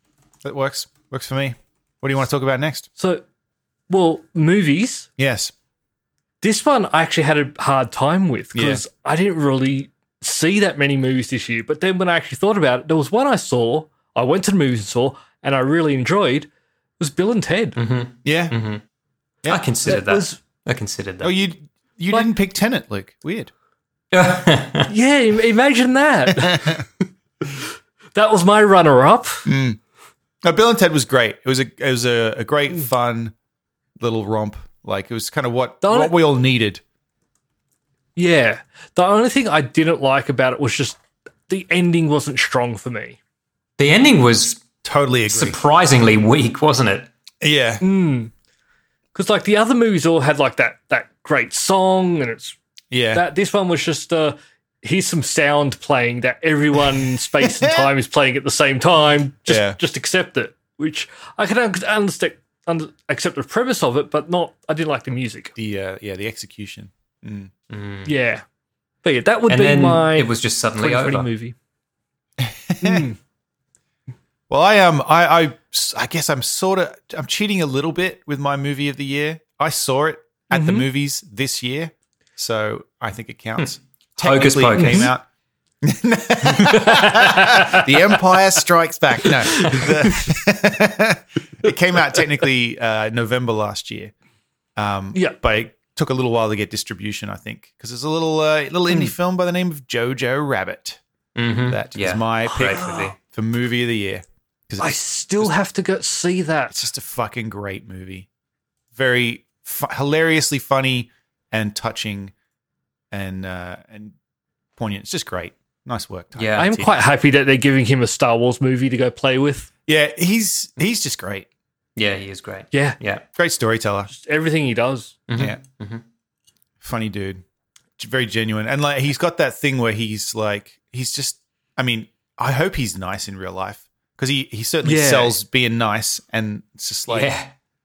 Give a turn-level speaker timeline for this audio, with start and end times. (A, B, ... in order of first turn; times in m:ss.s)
0:00.4-0:02.9 A
0:03.0-0:03.2 B
0:03.9-0:05.1 B
0:05.2-0:05.5 A
0:06.4-0:16.5 B
0:08.5-0:08.8 A
0:17.0-0:17.8 B
0:17.8-0:18.8 C
0:18.2-0:18.5 A
0:19.5-0:21.3 C
0:19.8-0:20.4 B
0:21.2-0:23.5 A
0:24.1-0:24.9 C
0:24.9-0:26.7 B
0:26.4-0:26.8 A
0:28.1-0:29.5 B
0:29.5-0:29.8 A
0:30.4-0:33.3 A
0:34.0-0:36.8 A
0:35.8-0:36.2 B
0:38.2-0:43.2 B
0:43.8-0:44.6 C
0:44.8-0:45.6 A
0:45.3-0:47.1 C
0:47.4-0:47.8 A
0:47.8-0:48.3 B
0:49.1-0:52.6 B
0:52.9-0:53.2 A
0:53.1-1:05.5 B
0:59.5-0:59.8 A
1:05.6-1:07.5 A
1:07.7-1:08.1 C
1:08.0-1:08.4 B
1:09.0-1:11.6 B
1:09.5-1:11.3 C
1:12.4-1:13.1 A
1:12.8-1:13.2 B
1:14.5-1:25.2 A
1:20.5-1:20.8 B
1:24.2-1:25.1 C
1:24.7-1:25.1 B
1:25.8-1:34.1 A
1:26.6-1:27.9 B
1:29.5-1:30.3 B
1:34.8-1:41.0 A
1:41.4-1:43.2 C
1:41.7-1:45.5 A
1:42.5-1:43.1 B
1:44.8-1:46.7 B
1:46.7-1:48.2 A
1:48.9-1:52.3 A
1:53.1-1:54.1 A
1:54.8-1:57.0 A
1:56.3-1:56.7 C
1:56.6-1:59.7 B
1:59.9-2:01.5 A
2:02.0-2:03.2 C
2:02.7-2:03.0 B
2:03.4-2:04.1 A
2:04.1-2:05.1 B
2:05.3-2:06.0 C
2:06.8-2:07.4 A
2:08.0-2:17.3 A
2:14.8-2:15.3 B
2:17.1-2:17.5 C